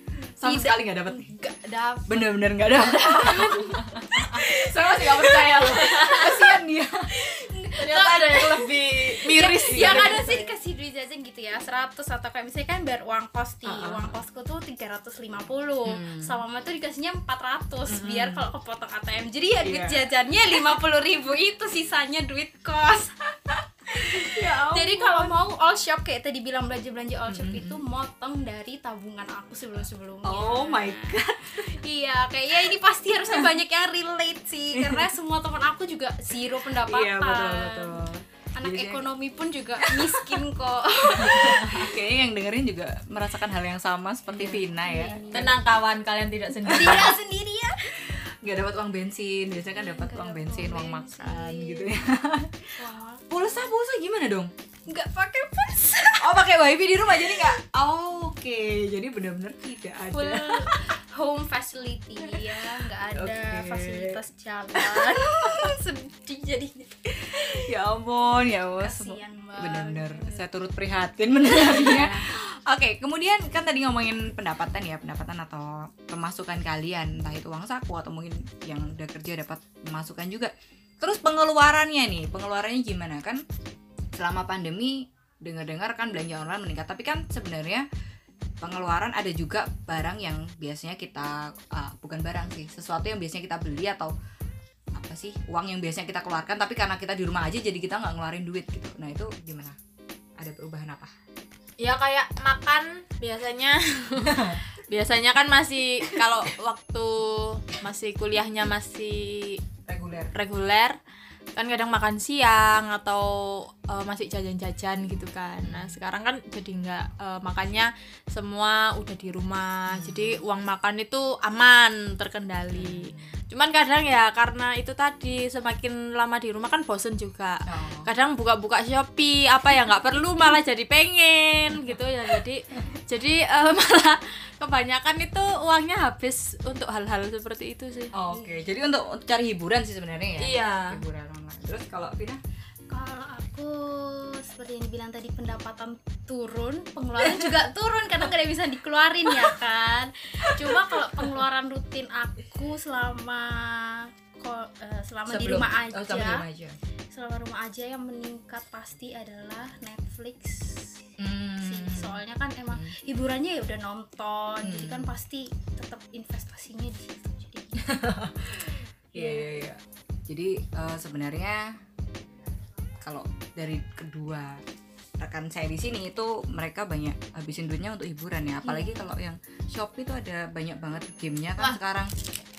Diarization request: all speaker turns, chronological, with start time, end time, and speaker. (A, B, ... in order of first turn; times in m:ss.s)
0:00.4-0:01.3 A
0:00.4-0:23.3 B
0:02.1-0:07.1 A
0:07.8-0:10.5 A
0:08.0-0:08.5 C
0:09.3-0:10.4 C
0:13.6-0:14.2 A
0:15.9-0:16.4 A
0:17.9-0:18.5 A
0:19.6-0:20.1 A
0:23.9-0:38.0 B
0:24.0-0:25.4 A
0:27.3-0:27.8 A
0:30.2-0:31.7 A
0:34.7-0:35.1 A
0:36.8-0:39.1 A
0:38.6-0:41.9 B
0:39.8-0:40.4 A
0:41.1-0:45.5 A
0:44.3-0:45.6 B
0:45.3-0:47.2 C
0:46.7-0:47.2 A
0:46.7-0:47.9 B
0:48.0-0:52.7 A
0:49.8-0:52.0 B
0:52.8-0:53.2 B
0:53.3-0:54.5 A
0:54.9-0:56.4 B
0:56.2-1:00.8 A
0:57.2-0:57.5 B
1:00.1-1:07.7 B
1:02.2-1:04.2 A
1:04.8-1:05.7 A
1:07.3-1:23.4 A
1:08.8-1:10.4 B
1:11.5-1:12.1 B
1:24.2-1:27.9 A
1:28.6-1:34.1 A
1:34.9-1:39.8 A
1:40.4-1:41.1 A
1:41.8-1:49.6 C
1:44.2-1:44.6 A
1:49.9-1:50.3 A
1:50.3-1:51.0 C
1:51.6-2:18.1 C
1:55.6-1:56.0 A
1:59.9-2:00.4 A
2:02.7-2:03.3 A
2:07.7-2:08.1 A
2:18.1-2:22.4 A
2:20.4-2:21.0 C
2:22.9-2:36.4 B
2:30.5-2:31.2 A
2:35.3-2:36.8 A
2:37.1-2:41.0 B
2:41.2-2:42.2 A
2:41.6-2:47.9 B
2:44.6-2:45.1 A
2:47.8-2:51.8 A
2:49.2-2:49.5 B
2:53.0-2:54.6 A
2:55.2-3:02.1 A
2:58.6-2:59.1 B